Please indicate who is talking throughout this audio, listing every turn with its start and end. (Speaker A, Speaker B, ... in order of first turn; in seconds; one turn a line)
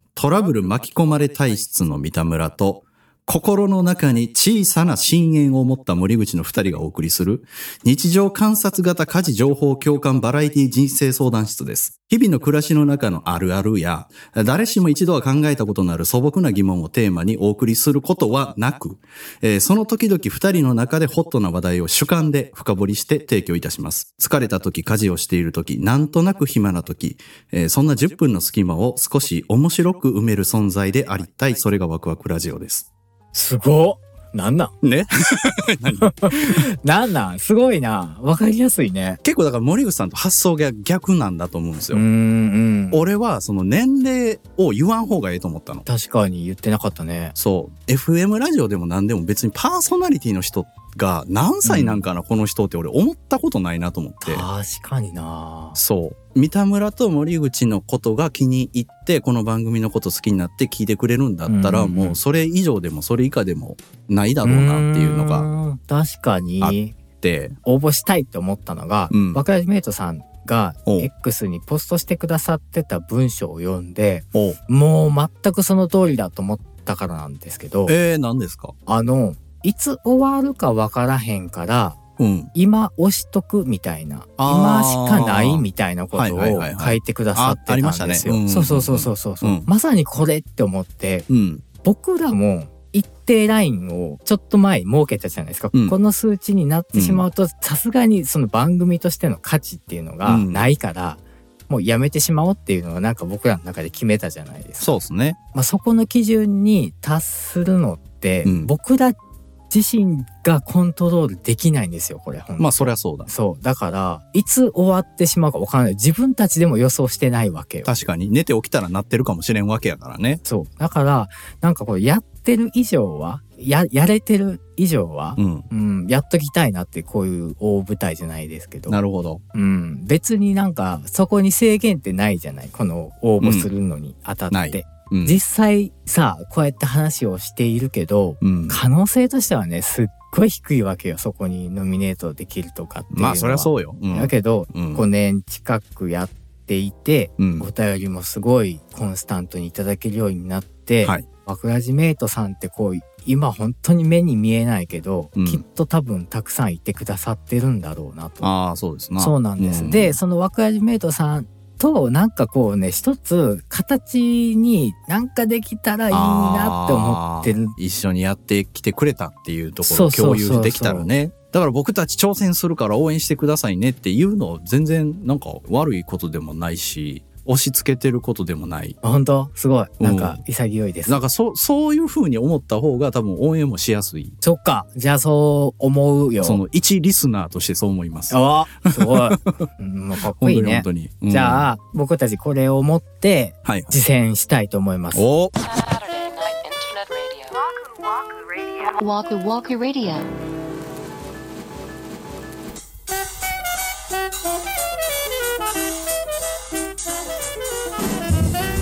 Speaker A: 0.2-32.9
Speaker B: 33.3-34.7
Speaker A: 34.8-36.6
Speaker B: 36.0-39.2
Speaker A: 39.2-42.0
Speaker B: 41.9-43.0
Speaker A: 42.9-45.9
Speaker B: 45.9-47.4
Speaker A: 47.4-54.5
Speaker B: 51.6-52.0
Speaker B: 54.2-55.8
Speaker A: 55.8-65.5
Speaker B: 61.5-62.2
Speaker B: 64.4-67.0
Speaker A: 66.6-67.6
Speaker B: 67.7-78.0
Speaker A: 69.1-69.4
Speaker A: 77.9-78.7
Speaker B: 78.9-82.0
Speaker A: 82.2-82.5
Speaker B: 82.5-91.3
Speaker A: 84.4-89.7
Speaker A: 91.3-91.6
Speaker B: 91.8-105.0
Speaker A: 96.9-97.2
Speaker A: 100.2-100.7
Speaker A: 104.8-105.4
Speaker B: 105.5-109.2
Speaker A: 108.5-108.7
Speaker B: 109.7-117.9
Speaker A: 112.6-113.3
Speaker A: 117.9-120.4
Speaker B: 120.5-129.0
Speaker A: 125.4-125.7
Speaker A: 128.9-129.4
Speaker B: 129.5-158.5
Speaker A: 133.4-133.7
Speaker A: 134.5-135.4
Speaker A: 138.4-138.8
Speaker A: 143.1-145.1
Speaker A: 147.4-147.7
Speaker A: 155.4-155.6
Speaker A: 158.4-160.2
Speaker B: 159.2-167.7
Speaker A: 166.1-179.0
Speaker B: 169.8-171.1
Speaker B: 179.0-181.2
Speaker A: 180.0-180.4
Speaker A: 181.1-184.4
Speaker B: 184.4-186.6
Speaker A: 186.4-189.4
Speaker B: 188.3-195.2
Speaker A: 190.3-191.7
Speaker A: 193.7-194.0
Speaker A: 195.1-195.5
Speaker C: 195.6-197.6
Speaker C: 198.8-200.3